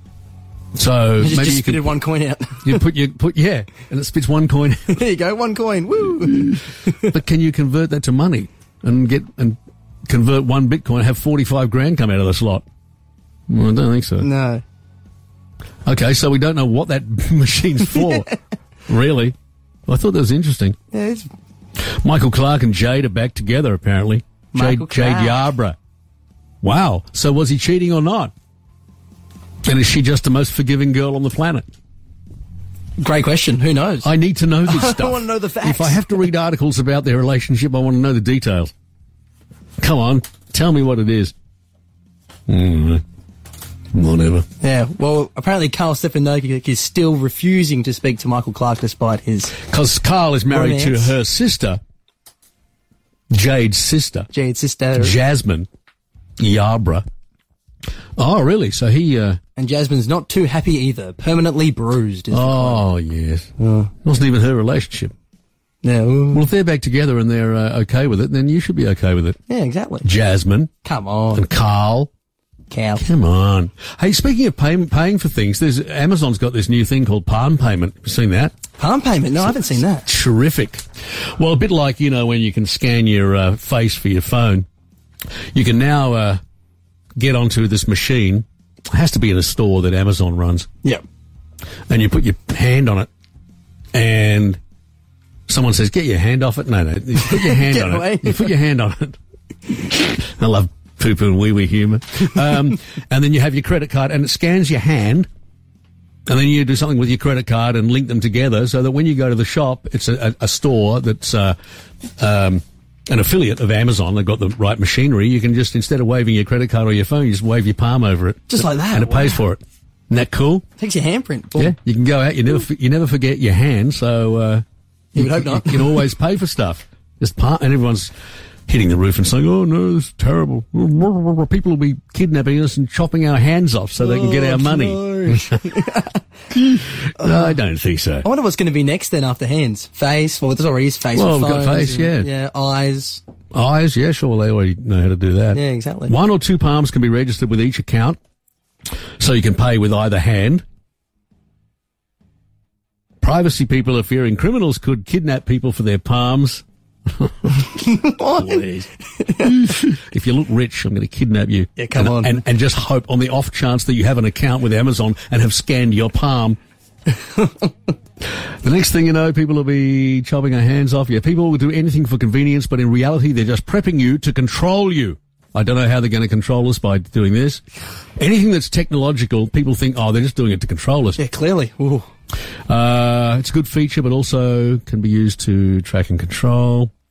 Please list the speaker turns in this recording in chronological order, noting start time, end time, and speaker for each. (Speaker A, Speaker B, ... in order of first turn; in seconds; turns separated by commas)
Speaker A: 0.8-1.9, Speaker B: 1.2-2.8, Speaker A: 2.6-5.0, Speaker B: 4.9-7.1, Speaker A: 6.2-12.7, Speaker A: 13.5-14.3, Speaker B: 14.2-14.6, Speaker A: 15.9-18.3, Speaker A: 18.9-19.4, Speaker A: 19.9-20.8, Speaker B: 20.9-21.3, Speaker A: 21.8-25.8, Speaker B: 24.5-25.4, Speaker A: 26.6-28.3, Speaker A: 29.6-31.7, Speaker B: 33.0-34.1, Speaker A: 34.0-38.7, Speaker B: 34.7-36.2, Speaker A: 39.8-41.3, Speaker A: 42.5-43.0, Speaker A: 43.9-44.5, Speaker B: 44.6-49.6, Speaker A: 49.6-51.8, Speaker B: 50.5-51.1, Speaker A: 53.3-54.3, Speaker B: 54.3-55.2, Speaker A: 55.0-55.7, Speaker A: 56.4-57.0, Speaker A: 58.2-59.4, Speaker B: 59.6-62.8, Speaker A: 62.3-63.5, Speaker B: 63.6-63.9, Speaker A: 64.0-65.1, Speaker B: 65.8-66.5, Speaker A: 66.3-69.4, Speaker B: 69.5-70.1, Speaker A: 70.0-70.7, Speaker B: 70.8-71.5, Speaker A: 71.3-72.1, Speaker B: 72.7-73.0, Speaker A: 73.0-78.6, Speaker B: 78.8-80.1, Speaker A: 79.4-84.7, Speaker A: 85.5-86.4, Speaker A: 87.2-90.7, Speaker A: 91.9-93.1, Speaker A: 93.9-94.6, Speaker A: 95.5-99.2, Speaker B: 97.2-98.5, Speaker A: 99.8-105.3, Speaker A: 106.3-111.6, Speaker A: 112.2-120.7, Speaker B: 118.5-119.4, Speaker B: 120.8-121.8, Speaker A: 121.5-124.7, Speaker B: 125.2-126.0, Speaker A: 125.2-128.1, Speaker A: 128.7-135.8, Speaker B: 134.0-136.2, Speaker A: 136.5-138.3, Speaker B: 137.2-137.5, Speaker B: 138.2-143.2, Speaker A: 141.1-142.3, Speaker A: 143.5-148.2, Speaker B: 145.5-146.1, Speaker A: 149.2-150.7, Speaker A: 153.2-158.9, Speaker B: 157.7-158.7, Speaker B: 159.2-159.7, Speaker A: 159.4-166.6, Speaker B: 161.8-162.4, Speaker B: 167.1-167.7, Speaker A: 168.6-177.6, Speaker A: 178.2-181.2, Speaker B: 181.2-182.1, Speaker A: 182.7-186.9